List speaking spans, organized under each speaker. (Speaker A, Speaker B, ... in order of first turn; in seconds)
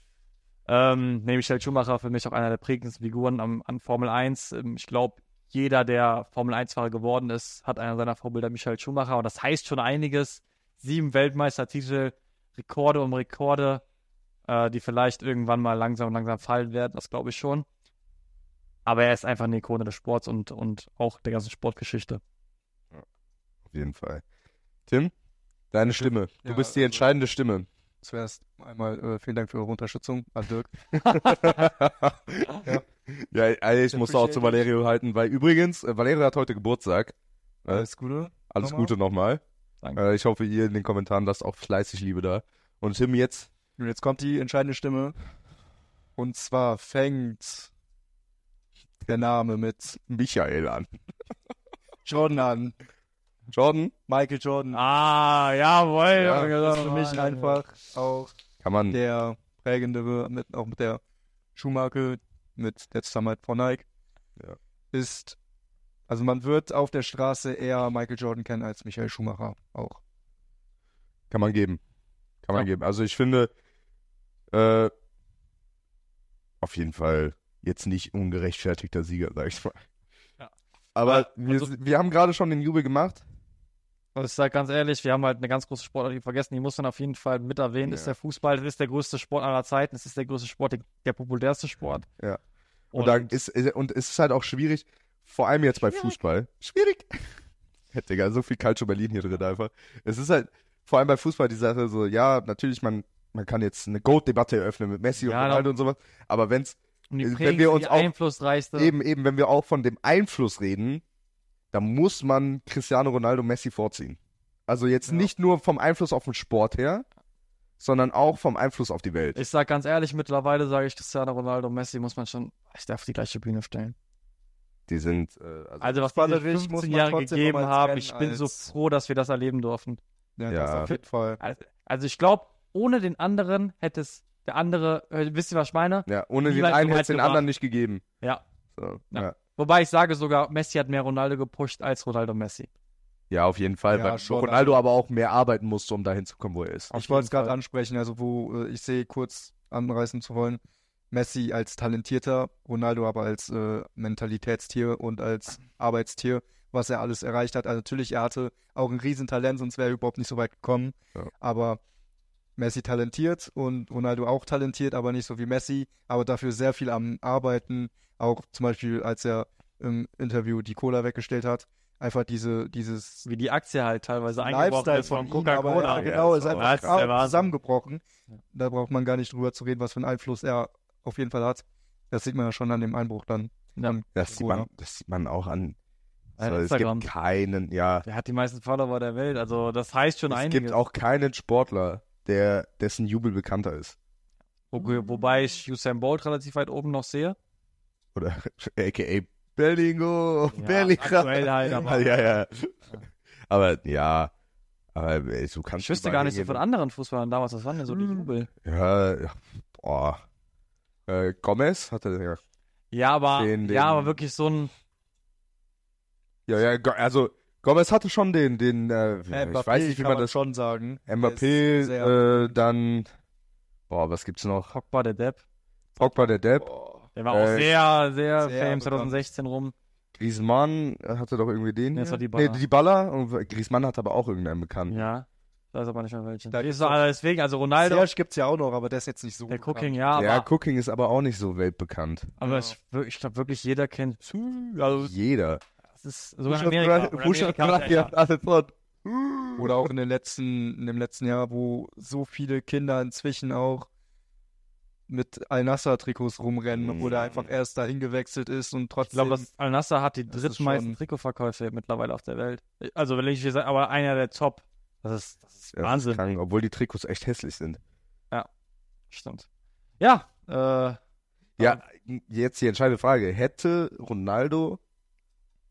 Speaker A: 0.7-13.8, 14.4-17.6, 18.9-22.2, 54.7-57.6, 81.0-81.7, 84.1-92.1, 92.9-93.3, 95.9-96.2, 105.2-105.7, 107.1-108.9, 119.3-123.9, 125.8-130.0, 130.9-137.4, 139.1-142.7, 146.9-147.5, 173.2-177.5, 183.8-184.5, 186.4-187.1, 188.0-190.8, 194.7-197.3, 200.5-202.3, 205.8-208.5, 212.9-214.7, 224.7-225.4, 227.2-229.7, 231.9-232.6, 234.9-238.1, 239.5-240.5, 242.4-245.1, 246.0-248.1, 259.0-266.2, 269.1-269.4, 270.0-271.0
Speaker B: 23.7-24.2, 24.9-25.1, 25.7-27.7, 30.9-37.1, 38.5-39.4, 40.0-43.5, 49.9-50.9, 53.5-53.9, 56.2-56.5, 58.6-59.0, 71.3-71.8, 72.4-73.5, 74.5-74.9, 76.6-79.8, 81.0-83.2, 87.8-88.1, 92.9-97.4, 97.9-108.1, 108.8-111.0, 111.7-117.0, 117.8-119.4, 124.9-126.0, 130.5-130.9, 136.1-138.0, 138.8-139.3, 143.3-146.9, 175.0-177.1, 184.1-185.8, 186.4-188.1, 190.3-193.9, 198.1-204.3, 204.9-206.6, 208.6-210.2, 211.1-212.4, 213.3-214.2, 216.5-220.3, 221.1-223.1, 223.9-224.7, 226.0-226.7, 227.3-227.7, 230.1-235.0, 240.2-242.3, 244.9-245.6, 246.5-249.7, 256.7-257.5, 265.8-267.8, 271.6-274.8
Speaker C: 25.9-27.1, 28.0-31.3, 33.9-34.6, 37.7-38.9, 43.8-45.1, 46.2-47.7, 49.1-49.9, 52.0-52.7, 54.1-54.8, 56.2-58.3, 58.9-61.0, 61.5-63.9, 64.9-65.4, 66.1-70.0, 126.1-128.5, 130.4-131.4, 143.9-144.8, 146.9-161.8, 162.6-173.2, 174.4-184.7, 219.3-222.6, 226.6-227.1, 228.4-229.2, 236.5-237.0, 237.8-240.2, 242.4-242.7, 249.6-253.9, 255.1-259.5, 260.3-261.0